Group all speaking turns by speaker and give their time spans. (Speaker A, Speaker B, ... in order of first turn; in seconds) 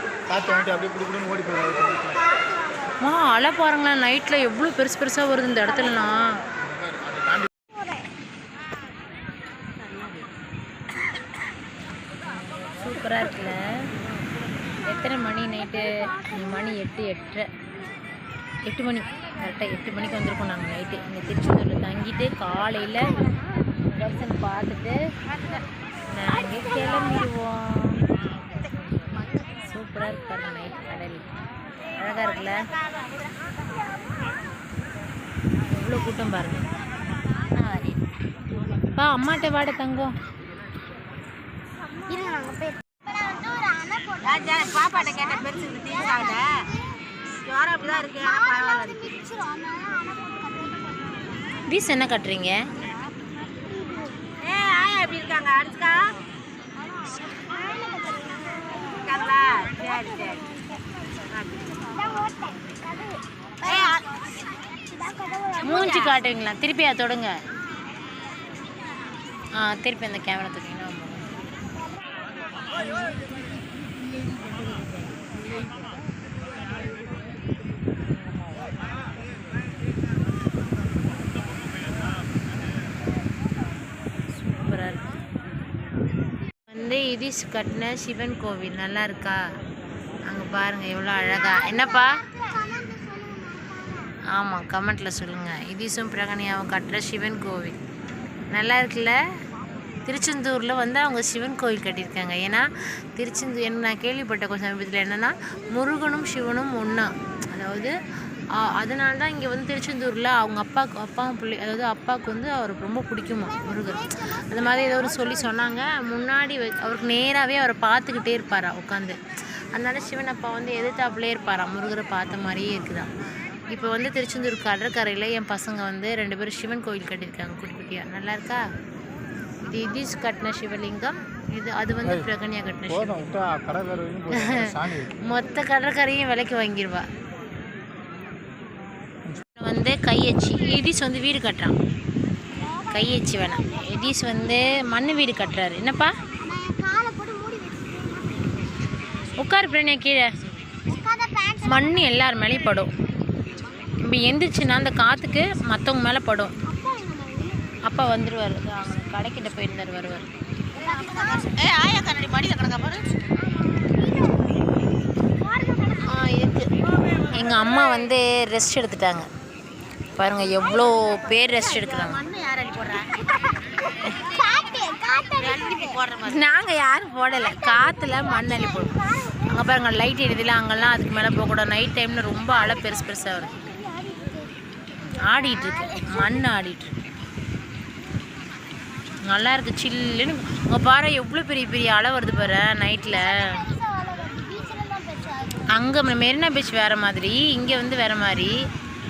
Speaker A: 0.3-2.2, 6.7-7.5, 132.9-135.1
Speaker B: 1.8-2.9, 42.1-46.8, 48.1-51.3, 53.7-54.2, 57.5-60.8, 61.9-64.0, 64.8-66.0, 91.4-94.1, 142.6-144.4, 146.4-148.6, 150.9-152.1, 156.7-157.6, 160.8-161.5, 163.4-164.4, 165.4-166.2, 167.4-167.7, 170.8-171.4, 174.0-176.0, 177.3-179.4, 183.2-186.4, 193.1-195.7
Speaker C: 3.0-6.2, 12.2-13.6, 14.8-17.5, 18.7-23.0, 23.9-25.0, 26.1-28.0, 29.7-31.3, 31.9-32.6, 35.7-36.6, 37.5-38.0, 39.0-40.1, 51.7-52.6, 65.6-67.3, 69.6-71.3, 84.4-85.0, 86.7-89.4, 90.3-92.1, 94.4-97.8, 98.5-99.1, 100.0-108.0, 108.7-119.2, 119.7-123.1, 123.7-128.6, 129.6-133.3, 134.3-137.0, 139.6-141.7, 142.9-146.1, 149.4-150.3, 151.6-152.9, 154.0-156.5, 157.9-160.3, 166.1-166.7, 167.3-169.3, 170.2-172.2, 176.2-178.9, 179.5-183.5, 185.2-187.0, 189.3-193.3, 195.7-198.5
Speaker D: 25.3-25.6, 44.2-46.5, 47.4-49.2, 54.4-56.1, 59.0-60.4, 61.3-61.7, 63.6-64.0, 65.6-66.2, 160.8-163.1, 171.5-173.2, 175.4-176.4